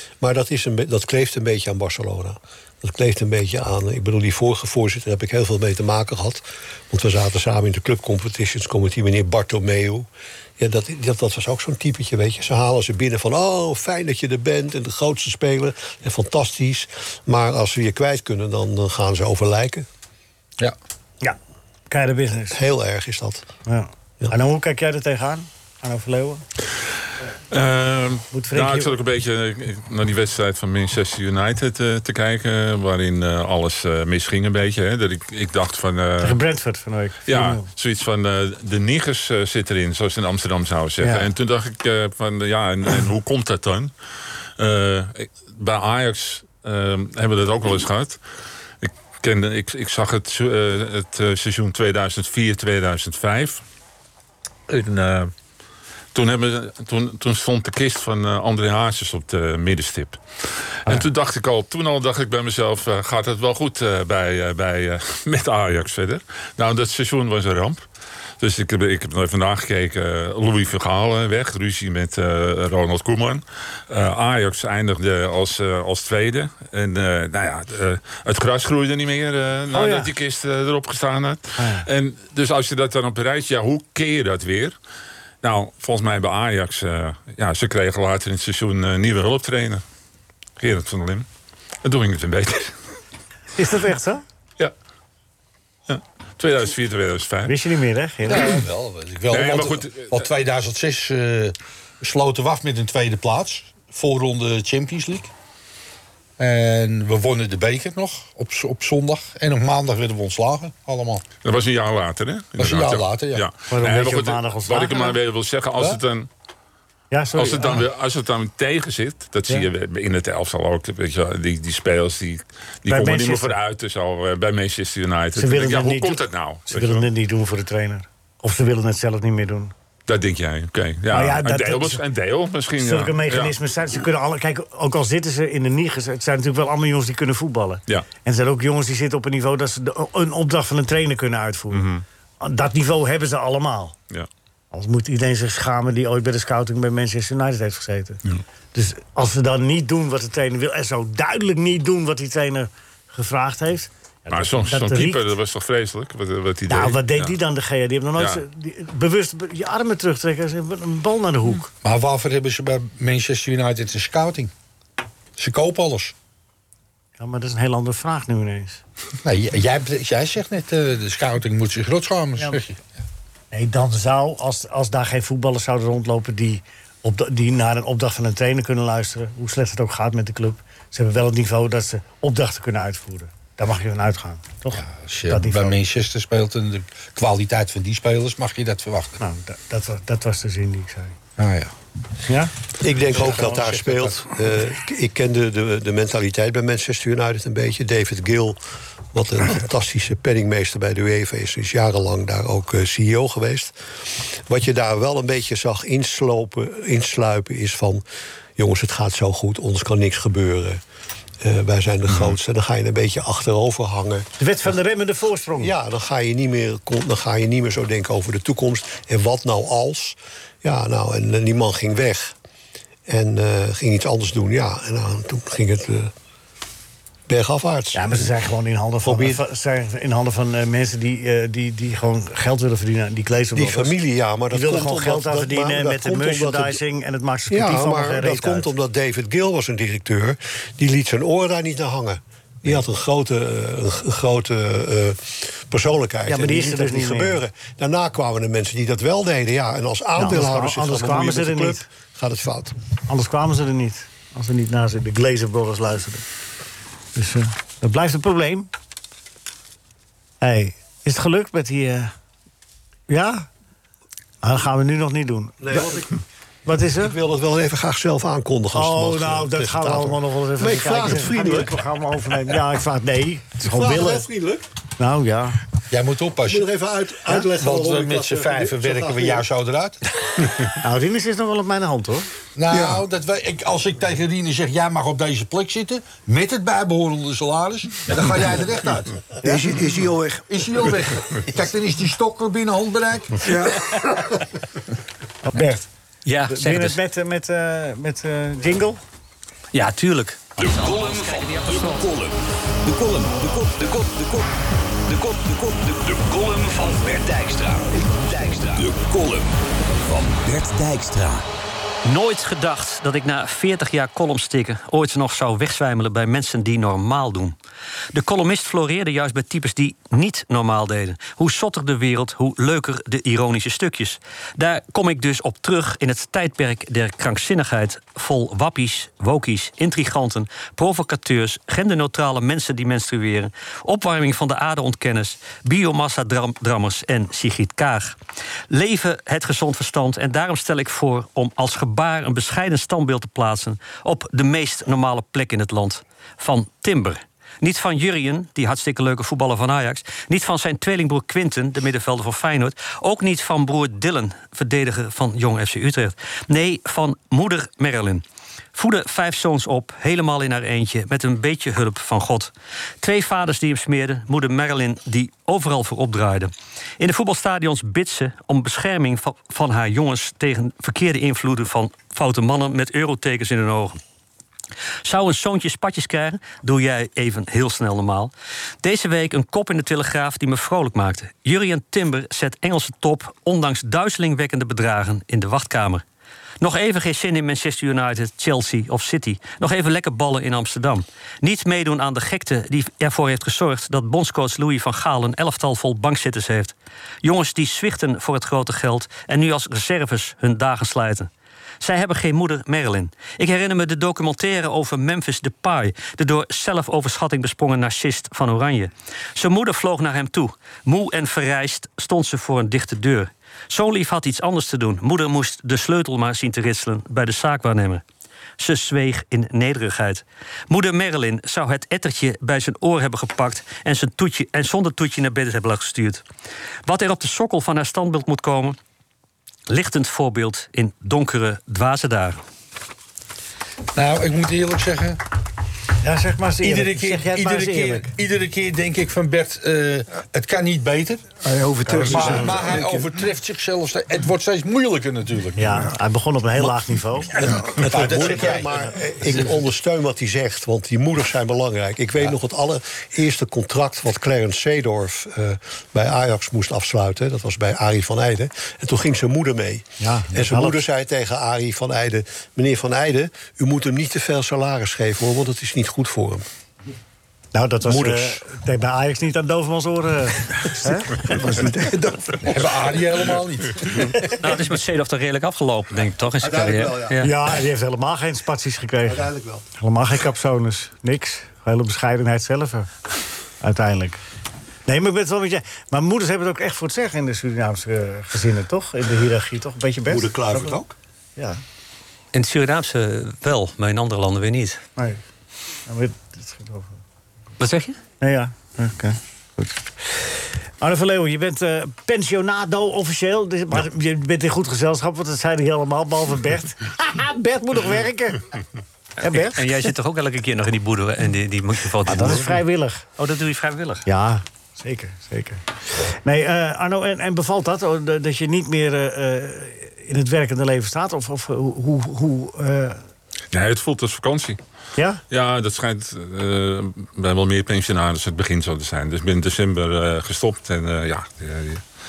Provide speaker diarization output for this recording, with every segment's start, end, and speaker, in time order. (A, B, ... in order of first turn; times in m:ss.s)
0:00.2-0:19.9 A
0:21.9-0:22.6 B
0:22.5-0:23.4 A
0:23.6-0:26.4 B
0:27.5-0:36.4 C
0:28.3-0:28.9 B
0:36.2-0:37.7 B
0:37.3-0:43.9 C
0:41.0-0:41.3 B
0:44.6-0:48.2 C
0:48.8-0:53.6 C
0:54.7-0:55.3 C
0:56.1-1:00.2 C
1:00.8-1:07.8 C
1:08.4-1:24.8 C
1:19.7-1:20.1 B
1:21.6-1:21.9 B
1:25.4-1:29.8 C
1:30.6-1:31.2 C
1:31.8-1:32.8 C
1:33.6-1:34.2 B
1:35.9-1:37.6 C
1:37.4-1:38.6 B
1:38.2-1:45.3 D
1:39.3-1:40.2 C
1:46.4-1:51.2 D
1:51.4-1:56.3 C
1:52.6-1:53.4 D
1:53.7-1:55.2 B
1:57.1-1:57.9 B
1:57.3-2:07.0 C
2:02.9-2:03.5 B
2:05.3-2:09.7 B
2:10.1-2:13.5 C
2:11.1-2:12.0 B
2:12.8-2:21.9 B
2:21.7-2:22.0 C
2:22.4-2:23.9 B
2:24.7-2:28.2 B
2:28.7-2:35.3 B
2:34.3-2:37.3 C
2:36.7-2:41.7 B
2:38.2-2:38.4 C
2:41.8-2:44.5 D
2:45.4-2:46.1 D
2:47.2-2:48.8 B
2:49.2-2:52.8 D
2:53.5-3:05.8 B
3:04.7-3:09.2 D
3:09.2-3:11.2 B
3:11.4-3:11.7 D
3:12.2-3:12.5 B
3:12.8-3:18.6 A
3:13.1-3:13.8 B
3:13.2-3:14.2 D
3:19.1-3:28.0 A
3:28.6-3:30.8 A
3:31.4-3:34.3 A
3:32.1-3:32.4 C
3:34.4-3:35.7 B
3:35.6-3:42.3 A
3:43.1-3:46.1 A
3:47.3-3:48.3 A
3:47.9-3:54.0 B
3:49.0-3:49.4 A
3:53.5-3:56.8 A
3:54.5-3:58.7 B
3:57.5-4:12.7 A
4:06.3-4:07.4 B
4:10.2-4:11.8 B
4:13.1-4:16.2 B
4:17.1-4:18.7 B
4:20.4-4:22.1 B
4:23.1-4:23.5 B
4:24.4-4:26.0 B
4:25.6-4:26.2 A
4:26.6-4:27.2 B
4:26.9-4:31.8 A
4:28.7-4:34.3 B
4:33.6-4:34.6 A
4:35.0-4:35.6 B
4:35.9-4:36.7 D
4:36.4-4:39.4 A
4:37.4-4:40.0 D
4:40.8-4:42.3 B
4:42.6-4:49.2 D
4:42.7-4:43.0 E
4:49.4-4:50.4 E
4:50.5-4:53.5 D
4:53.4-4:53.9 E
4:55.4-4:55.9 B
4:56.2-4:57.0 F
4:56.5-4:59.0 B
4:59.7-5:02.1 F
5:02.9-5:04.0 G
5:08.7-5:09.4 G
5:10.1-5:11.2 G
5:12.0-5:17.6 F
5:18.1-5:38.2 F
5:38.7-5:58.2 F
5:58.7-6:02.5 F
6:03.0-6:14.0 F
6:15.0-6:26.0 F
6:26.6-6:41.3 F
6:41.8-6:58.0 F
6:58.6-7:06.2 F
7:06.8-7:08.8 F
7:09.7-7:12.4 F
7:13.9-7:15.2 D
7:16.0-7:18.1 B
7:16.6-7:21.2 D
7:21.4-7:23.0 E
7:21.9-7:25.8 D
7:25.6-7:27.4 B
7:27.4-7:28.9 D
7:27.4-7:46.4 A
7:40.0-7:40.8 B
7:47.5-7:51.4 B
7:47.8-7:48.4 A
7:50.8-7:52.4 A
7:52.4-7:54.3 D
7:54.3-7:57.3 F
7:56.4-7:57.2 A
7:57.2-8:02.9 B
7:59.0-7:59.6 A
8:03.6-8:04.2 B
8:04.9-8:10.8 B
8:10.1-8:10.9 A
8:12.3-8:14.8 F
8:15.8-8:16.9 B
8:17.6-8:18.0 F
8:18.2-8:19.8 B
8:20.8-8:28.4 B
8:29.2-8:29.6 B
8:29.3-8:32.6 F
8:32.0-8:33.0 B
8:33.2-8:34.0 F
8:34.0-8:43.0 B
8:43.5-8:44.6 C
8:45.3-8:51.8 C